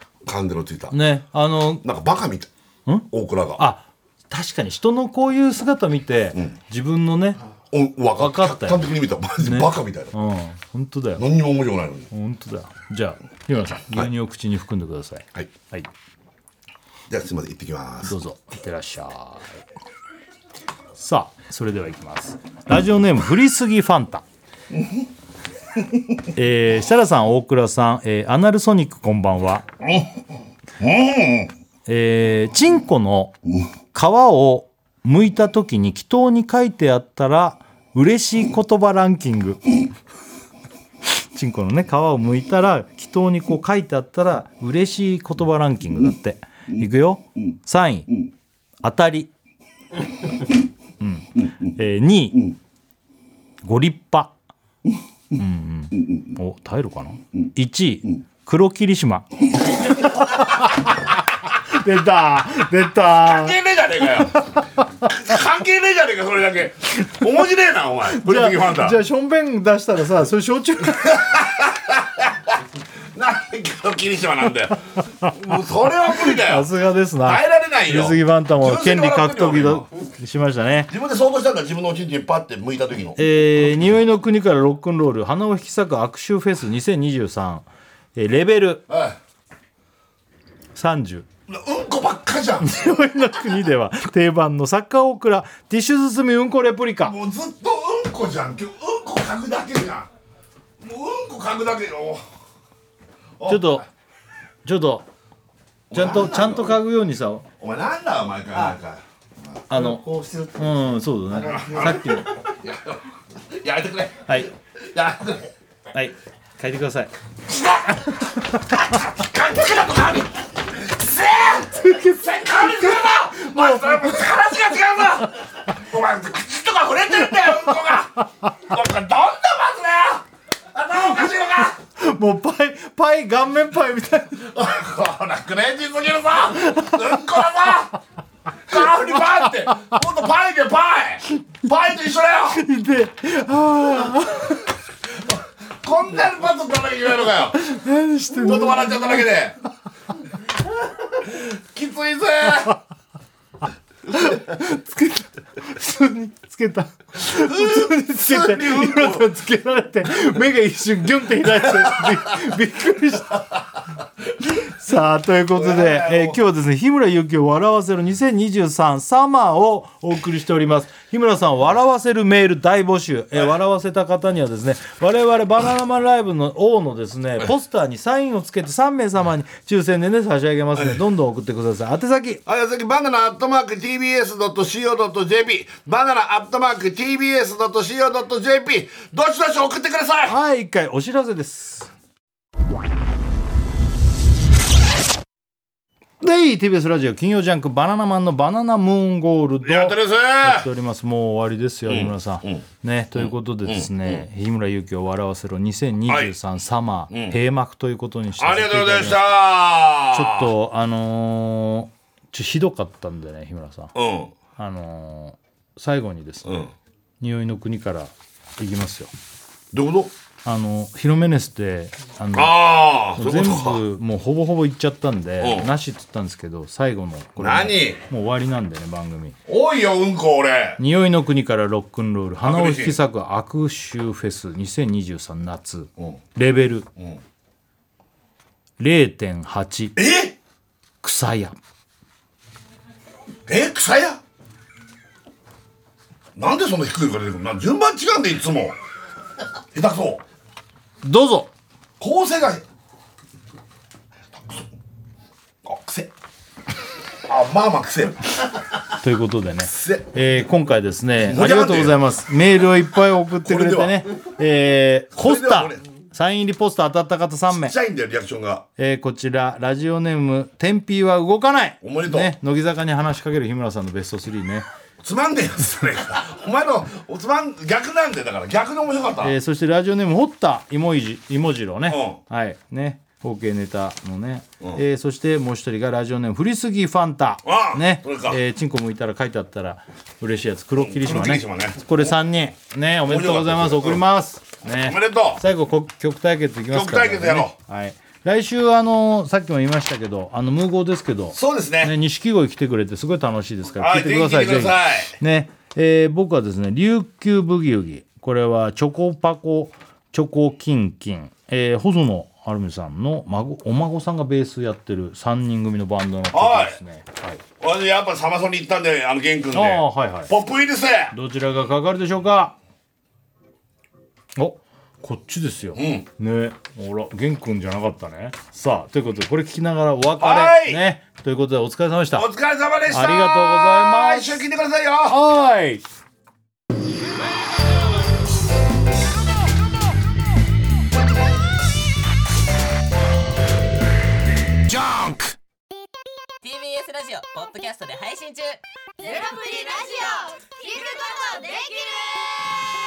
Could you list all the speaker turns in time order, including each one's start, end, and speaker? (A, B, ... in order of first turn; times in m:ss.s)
0:00.2-0:00.9 A
0:00.9-0:01.8 B
0:01.8-0:02.5 A
0:02.9-0:07.4 B
0:03.1-0:03.6 A
0:07.7-0:10.1 A
0:08.2-0:11.2 B
0:11.2-0:12.1 A
0:12.1-0:15.9 B
0:17.1-0:18.2 A
0:18.0-0:19.5 B
0:21.0-0:24.2 B
0:26.3-0:29.6 B
0:29.8-0:30.1 A
0:30.8-0:31.5 A
0:31.9-0:33.3 B
0:33.9-0:39.6 B
0:41.3-0:48.2 B
0:48.8-0:49.3 B
0:51.0-0:52.6 B
0:53.6-0:54.3 B
0:55.4-1:03.6 B
1:03.1-1:04.4 A
1:05.0-1:09.0 A
1:08.1-1:11.2 B
1:10.9-1:12.6 A
1:13.1-1:16.7 A
1:16.1-1:20.9 B
1:17.2-1:19.8 A
1:20.9-1:23.2 A
1:23.2-1:28.8 B
1:28.9-1:29.2 A
1:30.7-1:31.2 B
1:31.5-1:33.0 A
1:32.6-1:37.1 B
1:37.0-1:40.1 A
1:40.8-1:42.2 A
1:43.4-1:43.8 A
1:43.4-1:43.8 B
1:44.6-1:45.1 B
1:45.9-1:46.8 A
1:45.9-1:47.4 B
1:47.6-1:49.6 A
1:49.7-1:50.0 B
1:49.7-1:52.4 C
1:50.6-1:52.3 B
1:51.7-1:55.5 A
1:55.9-1:57.1 B
1:57.5-2:11.8 A
2:01.8-2:04.2 B
2:12.0-2:14.5 B
2:14.4-2:18.0 A
2:16.6-2:17.0 B
2:18.7-2:22.6 A
2:22.5-2:24.7 B
2:25.8-2:27.6 A
2:27.5-2:29.3 B
2:28.3-2:29.6 A
2:31.3-2:32.8 A
2:34.1-2:43.4 B
2:37.4-2:39.2 A
2:41.8-2:42.1 A
2:44.5-3:02.4 B
2:45.5-2:46.4 A
3:02.4-3:10.4 A
3:10.2-3:11.9 B
3:16.2-3:29.3 B
3:19.6-3:20.7 A
3:21.9-3:22.6 A
3:23.2-3:24.2 A
3:26.1-3:26.3 A
3:27.1-3:27.4 A
3:28.4-3:30.5 A
3:30.1-3:33.9 B
3:33.9-3:34.3 A
3:34.6-3:36.6 B
3:36.4-3:36.7 A
3:37.2-3:39.1 B
3:39.7-3:40.1 A
3:40.4-3:49.4 B
3:42.3-3:43.8 A
3:45.4-3:45.7 A
3:47.4-3:48.0 A
3:49.5-3:50.8 A
3:50.8-3:56.9 B
3:52.4-3:53.0 A
3:58.8-4:00.0 B
4:00.0-4:00.4 A
4:01.0-4:01.6 B
4:03.4-4:04.2 A
4:06.4-4:08.8 A
4:09.7-4:10.2 A
4:11.0-4:11.5 B
4:12.0-4:12.6 A
4:15.6-4:16.1 A
4:17.2-4:18.3 A
4:19.0-4:27.7 B
4:19.6-4:20.1 A
4:21.2-4:22.0 A
4:23.4-4:24.0 A
4:25.1-4:25.8 A
4:27.5-4:28.6 A
4:28.8-4:34.6 B
4:31.8-4:32.3 A
4:35.0-4:39.4 A
4:39.2-5:17.4 B
4:41.9-4:42.2 A
4:47.4-4:48.4 A
4:50.8-4:51.9 A
4:53.0-4:54.0 A
4:54.7-4:55.4 A
4:56.7-4:57.5 A
5:01.3-5:02.0 A
5:03.8-5:05.1 A
5:16.3-5:16.8 A
5:17.6-5:21.1 A
5:19.5-5:20.3 B
5:21.1-5:22.5 B
5:24.4-5:32.3 B
5:25.7-5:26.1 A
5:30.2-5:30.8 A
5:32.1-5:35.2 A
5:32.9-5:34.4 B
5:35.1-5:35.8 B
5:44.7-5:45.2 A
5:46.4-5:50.2 D
5:49.0-5:52.6 E
5:50.7-5:51.2 D